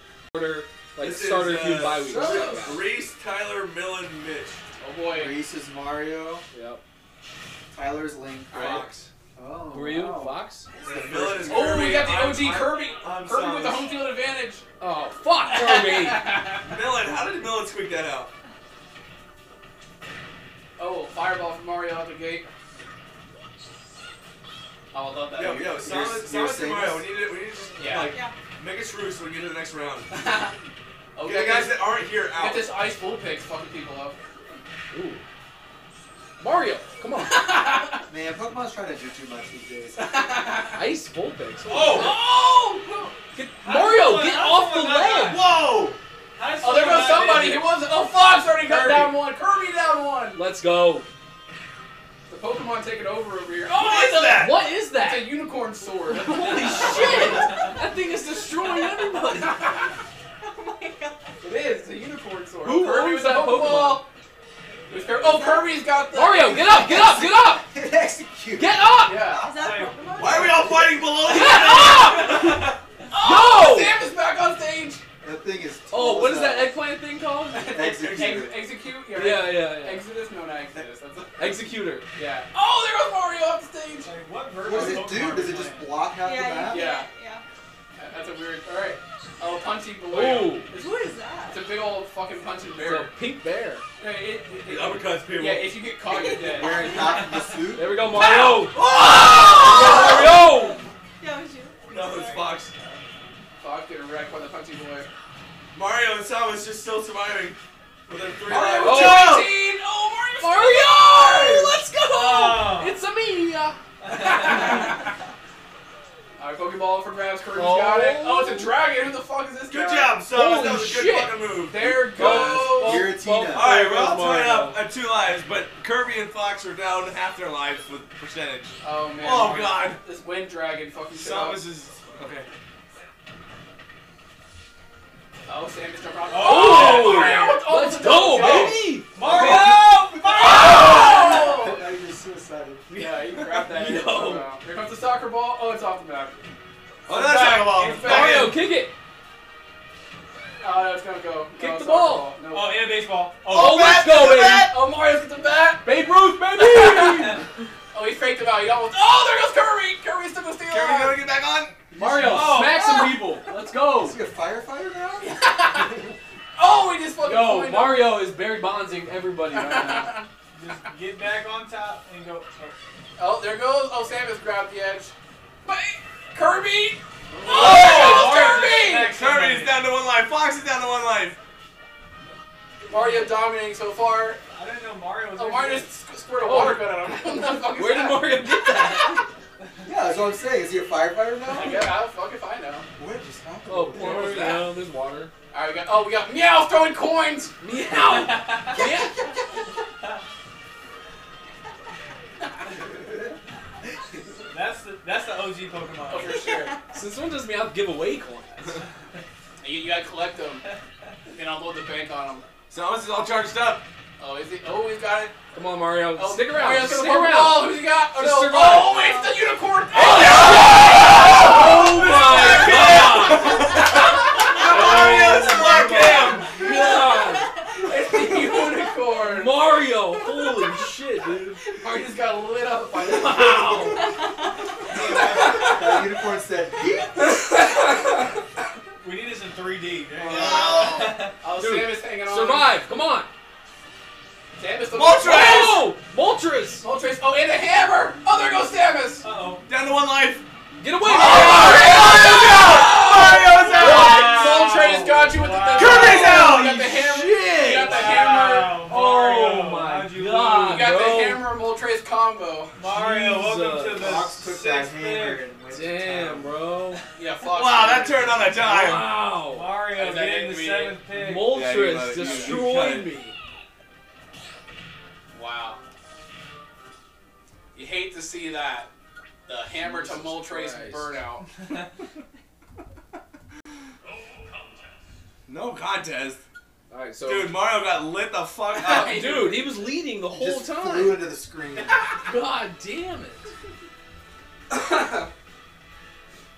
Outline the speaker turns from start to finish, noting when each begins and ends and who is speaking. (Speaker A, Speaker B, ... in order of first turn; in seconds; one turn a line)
Speaker A: 0.3-2.8
Speaker B: 1.0-4.6
Speaker C: 2.1-2.6
Speaker D: 4.8-5.4
Speaker C: 5.1-6.5
Speaker A: 6.5-6.8
Speaker C: 7.7-11.9
Speaker D: 8.5-8.9
Speaker B: 8.5-9.1
Speaker A: 9.7-10.7
Speaker B: 10.8-13.9
Speaker D: 11.5-14.6
Speaker A: 14.8-16.4
Speaker D: 15.5-16.6
Speaker B: 16.6-18.3
Speaker D: 20.8-22.5
Speaker D: 24.9-25.7
Speaker B: 25.4-30.1
Speaker C: 25.4-27.1
Speaker D: 27.8-28.1
Speaker E: 28.1-28.4
Speaker D: 30.1-30.5
Speaker D: 31.1-34.2
Speaker B: 31.2-32.7
Speaker A: 34.9-35.2
Speaker A: 36.4-37.4
Speaker D: 37.2-38.0
Speaker C: 38.1-40.1
Speaker D: 40.0-40.8
Speaker A: 40.7-42.2
Speaker F: 41.7-42.2
Speaker D: 41.8-43.1
Speaker A: 43.3-45.4
Speaker F: 43.6-45.5
Speaker B: 45.2-46.0
Speaker F: 46.4-47.7
Speaker D: 46.6-50.4
Speaker A: 48.7-49.1
Speaker A: 50.4-51.1
Speaker D: 52.3-57.8
Speaker B: 53.7-54.6
Speaker A: 54.3-55.4
Speaker A: 56.1-59.7
Speaker E: 60.4-61.3
Speaker D: 61.4-64.1
Speaker A: 62.6-64.1
Speaker D: 64.9-67.3
Speaker E: 65.1-65.8
Speaker A: 66.1-67.7
Speaker C: 67.6-68.9
Speaker A: 68.6-69.2
Speaker D: 69.0-69.5
Speaker E: 69.3-70.9
Speaker F: 69.5-70.4
Speaker B: 70.2-72.8
Speaker A: 71.2-72.6
Speaker D: 71.3-72.5
Speaker D: 73.1-75.0
Speaker A: 73.2-74.0
Speaker C: 75.2-76.8
Speaker A: 75.9-77.9
Speaker D: 77.5-84.1
Speaker C: 77.7-78.7
Speaker B: 78.0-78.4
Speaker A: 79.1-80.0
Speaker A: 81.4-82.1
Speaker F: 84.0-86.0
Speaker C: 84.6-86.9
Speaker E: 86.2-87.4
Speaker D: 86.7-87.1
Speaker D: 88.0-90.9
Speaker A: 90.1-90.7
Speaker E: 90.7-91.6
Speaker D: 91.5-93.1
Speaker A: 92.8-93.8
Speaker D: 94.0-97.2
Speaker B: 94.7-95.7
Speaker E: 96.1-97.2
Speaker C: 96.4-98.0
Speaker A: 97.8-98.8
Speaker B: 98.7-100.3
Speaker E: 99.5-100.3
Speaker A: 99.6-100.8
Speaker E: 101.2-102.6
Speaker B: 101.9-102.7
Speaker D: 103.6-105.1
Speaker B: 105.7-109.6
Speaker D: 108.5-111.8
Speaker A: 108.8-109.5
Speaker A: 110.4-113.8
Speaker F: 112.1-113.0
Speaker F: 114.1-114.9
Speaker D: 114.1-115.1
Speaker D: 116.4-120.2
Speaker A: 117.5-118.7
Speaker B: 119.7-122.6
Speaker A: 120.3-124.8
Speaker D: 121.7-123.1
Speaker C: 122.5-123.7
Speaker B: 123.5-130.0
Speaker D: 128.8-131.6
Speaker B: 131.1-132.5
Speaker D: 135.5-138.9
Speaker F: 136.3-137.6
Speaker A: 136.4-139.9
Speaker C: 138.4-142.9
Speaker F: 139.1-141.0
Speaker D: 140.4-141.8
Speaker A: 140.7-141.0
Speaker D: 142.9-146.4
Speaker A: 142.9-144.5
Speaker B: 147.1-148.6
Speaker F: 147.1-148.2
Speaker D: 147.3-148.5
Speaker A: 147.9-148.9
Speaker D: 150.6-153.0
Speaker A: 151.6-152.3
Speaker F: 152.5-153.7
Speaker B: 153.5-154.8
Speaker A: 153.5-154.7
Speaker D: 153.5-155.9
Speaker A: 155.8-157.4
Speaker D: 156.6-157.4
Speaker D: 157.9-161.2
Speaker B: 160.7-161.8
Speaker A: 161.9-164.2
Speaker F: 162.1-163.1
Speaker C: 164.0-165.3
Speaker D: 165.2-166.0
Speaker D: 166.6-168.2
Speaker A: 167.2-170.1
Speaker D: 169.5-170.3
Speaker F: 170.6-172.8
Speaker D: 173.2-175.1
Speaker D: 175.7-179.1
Speaker F: 177.3-179.8
Speaker B: 177.7-178.3
Speaker B: 179.1-181.4
Speaker D: 182.9-184.4
Speaker F: 182.9-183.4
Speaker F: 184.5-185.9
Speaker D: 185.4-188.5
Speaker A: 186.4-189.2
Speaker C: 189.8-191.9
Speaker D: 191.4-192.9
Speaker C: 193.0-194.5
Speaker A: 193.7-195.3
Speaker D: 194.0-194.6
Speaker D: 195.5-197.6
Speaker A: 197.6-199.2
Speaker D: 198.1-198.9
Speaker F: 204.5-206.7
Speaker D: 206.1-206.8
Speaker A: 206.9-208.8
Speaker D: 209.6-210.7
Speaker D: 211.3-212.5
Speaker B: 212.7-213.8
Speaker D: 214.2-215.4
Speaker A: 215.5-219.1
Speaker D: 216.1-225.6
Speaker E: 218.9-219.3
Speaker A: 219.9-223.8
Speaker B: 221.3-226.6
Speaker A: 224.6-227.5
Speaker C: 225.7-226.7
Speaker E: 226.7-227.9
Speaker D: 227.8-229.6
Speaker A: 229.3-231.6
Speaker D: 231.7-234.2
Speaker C: 233.3-234.0
Speaker F: 234.9-235.8
Speaker C: 235.2-237.5
Speaker D: 235.3-235.7
Speaker F: 239.0-241.3
Speaker B: 240.3-241.3
Speaker D: 241.4-242.8
Speaker A: 241.6-243.3
Speaker D: 244.6-245.9
Speaker B: 244.9-245.9
Speaker A: 245.2-246.9
Speaker D: 246.8-249.2
Speaker F: 249.2-249.7
Speaker B: 249.7-250.4
Speaker A: 250.8-252.8
Speaker B: 251.0-255.0
Speaker D: 251.1-258.9
Speaker A: 253.8-254.5
Speaker F: 254.5-256.3
Speaker B: 255.7-257.0
Speaker A: 256.9-258.1
Speaker F: 257.7-261.0
Speaker A: 258.9-261.4
Speaker D: 260.7-262.7
Speaker F: 262.8-265.4
Speaker A: 262.9-264.4
Speaker C: 264.0-266.6
Speaker A: 265.7-267.0
Speaker D: 267.2-268.5
Speaker B: 267.5-269.2
Speaker A: 268.6-269.7
Speaker F: 269.4-271.7
Speaker D: 269.9-271.0
Speaker A: 271.1-273.4
Speaker B: 271.4-273.1
Speaker D: 275.3-275.8
Speaker D: 277.7-278.9
Speaker D: 279.5-281.5
Speaker A: 279.8-281.1
Speaker B: 285.5-286.4
Speaker A: 286.9-287.6
Speaker B: 287.2-289.5
Speaker D: 288.7-289.7
Speaker A: 288.8-291.3
Speaker C: 290.3-292.0
Speaker A: 292.2-293.5